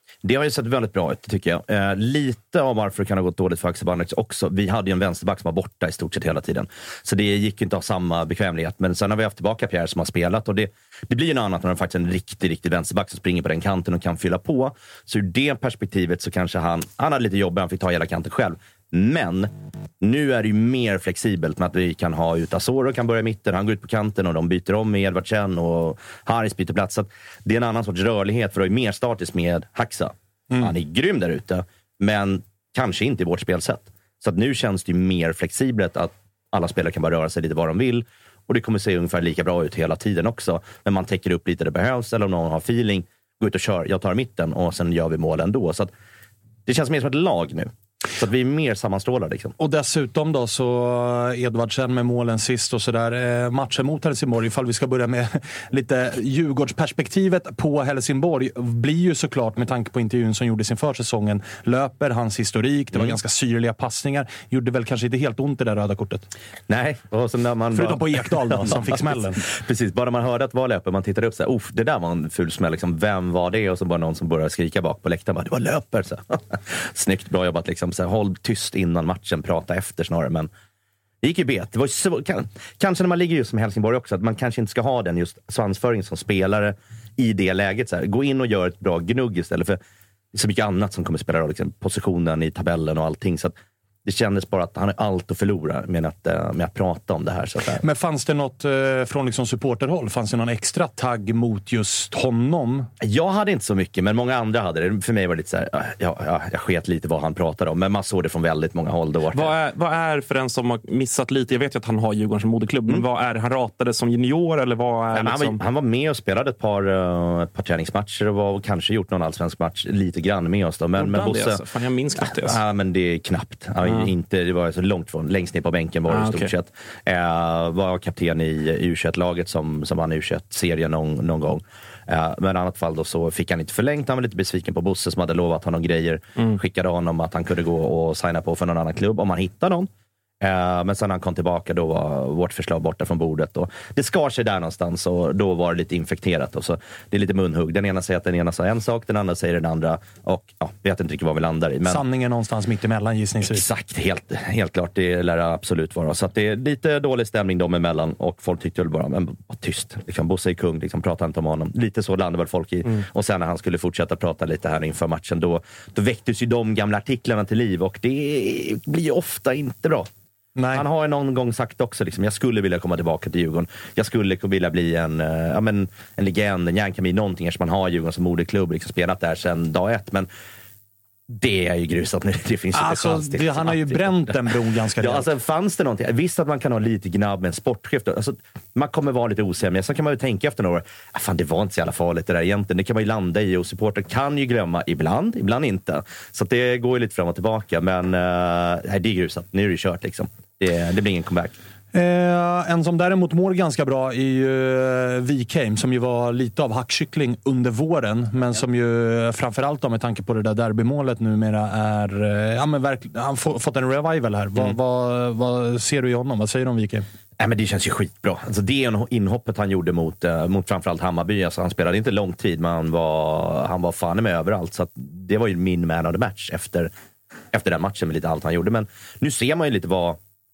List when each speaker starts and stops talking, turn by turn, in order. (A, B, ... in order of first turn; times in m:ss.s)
0:00.2-0:45.9 A
0:46.6-0:49.5 A
0:49.6-1:06.3 B
1:06.7-1:20.5 A
1:07.7-1:09.4 B
1:21.2-1:29.8 A
1:30.3-1:37.8 A
1:37.8-1:42.9 B
1:43.0-1:49.5 A
1:49.3-1:55.6 C
1:55.1-2:01.6 A
2:00.9-2:02.6 C
2:02.2-2:19.9 A
2:03.8-2:04.1 C
2:06.1-2:06.5 C
2:20.4-2:32.0 A
2:31.8-2:33.6 B
2:33.4-2:50.1 A
2:50.6-2:50.8 B
2:50.7-3:00.3 A
3:01.3-3:04.3 A
3:02.7-3:05.2 B
3:05.0-3:21.5 A
3:21.9-3:37.0 B
3:37.4-3:46.9 A
3:47.5-3:50.2 A